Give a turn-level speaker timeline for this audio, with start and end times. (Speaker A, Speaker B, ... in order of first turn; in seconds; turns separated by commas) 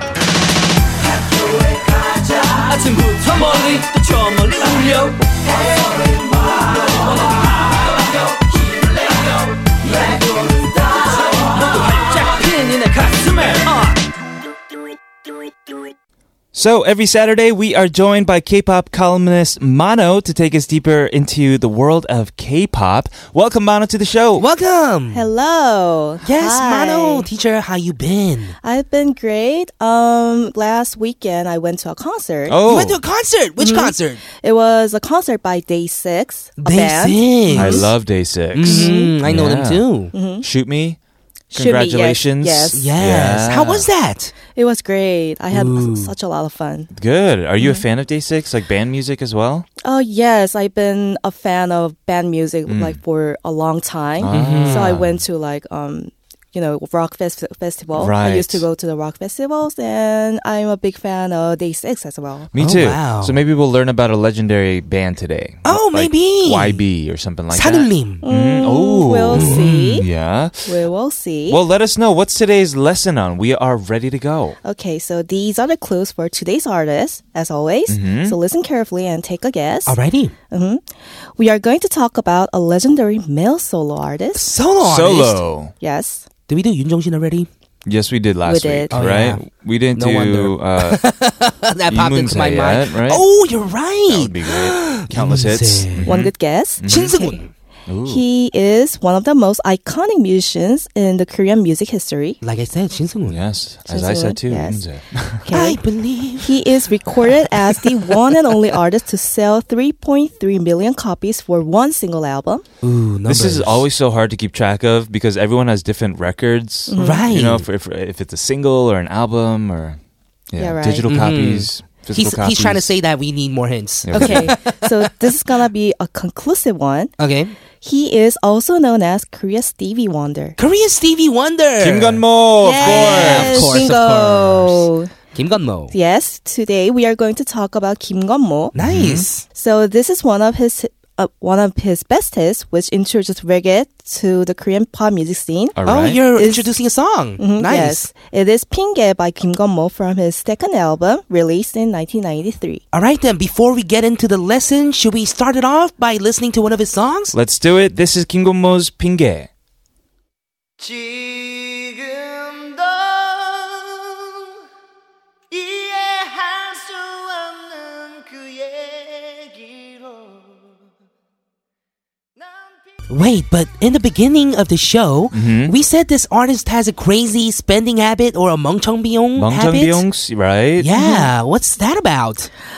Speaker A: 1.4-7.3, Speaker A: 8.7-9.0, Speaker A: 9.9-14.0, Speaker B: 16.5-24.5, Speaker C: 24.4-25.3, Speaker D: 25.1-27.3, Speaker C: 26.2-28.6, Speaker D: 28.6-32.6, Speaker B: 32.5-33.0, Speaker C: 32.7-34.2, Speaker D: 33.6-37.9, Speaker C: 36.6-37.9, Speaker B: 37.5-39.8, Speaker C: 38.5-40.1, Speaker D: 38.6-39.1, Speaker D: 40.1-40.5, Speaker B: 40.4-41.0, Speaker D: 41.5-42.9, Speaker B: 41.5-43.9, Speaker C: 42.7-44.3, Speaker D: 44.5-46.9, Speaker C: 45.5-46.1, Speaker B: 46.9-49.7, Speaker D: 49.8-62.5, Speaker B: 52.7-53.0, Speaker B: 54.2-55.2, Speaker C: 54.3-55.0, Speaker B: 58.0-58.7, Speaker B: 62.5-70.7, Speaker C: 62.6-63.4, Speaker C: 65.7-66.8, Speaker C: 67.5-68.2, Speaker D: 68.2-70.1, Speaker C: 69.3-70.0, Speaker D: 70.7-71.6, Speaker B: 71.5-74.6, Speaker D: 74.6-80.0, Speaker B: 77.9-78.4, Speaker C: 79.9-80.3, Speaker D: 80.5-80.8, Speaker D: 81.4-84.5, Speaker C: 84.3-85.4, Speaker B: 84.8-85.7, Speaker D: 85.8-86.2, Speaker C: 86.5-87.5, Speaker B: 87.9-91.0, Speaker D: 88.5-89.0, Speaker C: 88.9-96.1, Speaker B: 91.9-93.2, Speaker B: 94.1-97.3, Speaker D: 96.0-97.4, Speaker C: 96.9-97.5, Speaker B: 97.9-98.2, Speaker D: 98.1-102.4, Speaker C: 102.4-103.4, Speaker B: 103.3-105.5, Speaker D: 103.9-104.8, Speaker D: 105.4-105.8, Speaker C: 105.5-106.7, Speaker D: 106.4-112.6, Speaker C: 107.5-108.5, Speaker C: 112.8-113.8, Speaker B: 113.3-120.0, Speaker D: 116.9-117.2, Speaker C: 117.0-117.7, Speaker B: 120.5-123.0, Speaker D: 120.6-121.1, Speaker C: 121.1-125.1, Speaker B: 124.0-124.5, Speaker D: 124.1-127.1, Speaker C: 127.2-127.5, Speaker D: 127.8-130.6, Speaker C: 130.6-132.2, Speaker B: 131.8-133.9, Speaker D: 132.6-135.1, Speaker C: 132.8-135.9, Speaker D: 135.9-138.7, Speaker C: 138.8-139.4, Speaker B: 138.8-139.3, Speaker D: 139.5-145.8, Speaker B: 145.8-146.2, Speaker C: 145.9-148.1, Speaker D: 146.3-146.7, Speaker D: 147.4-152.8, Speaker C: 152.9-157.3, Speaker B: 157.3-159.5, Speaker E: 160.8-164.3, Speaker E: 165.5-170.6, Speaker E: 172.4-172.9, Speaker C: 173.1-180.0, Speaker B: 175.3-175.8, Speaker B: 179.4-180.9, Speaker C: 180.8-182.5, Speaker D: 181.0-181.3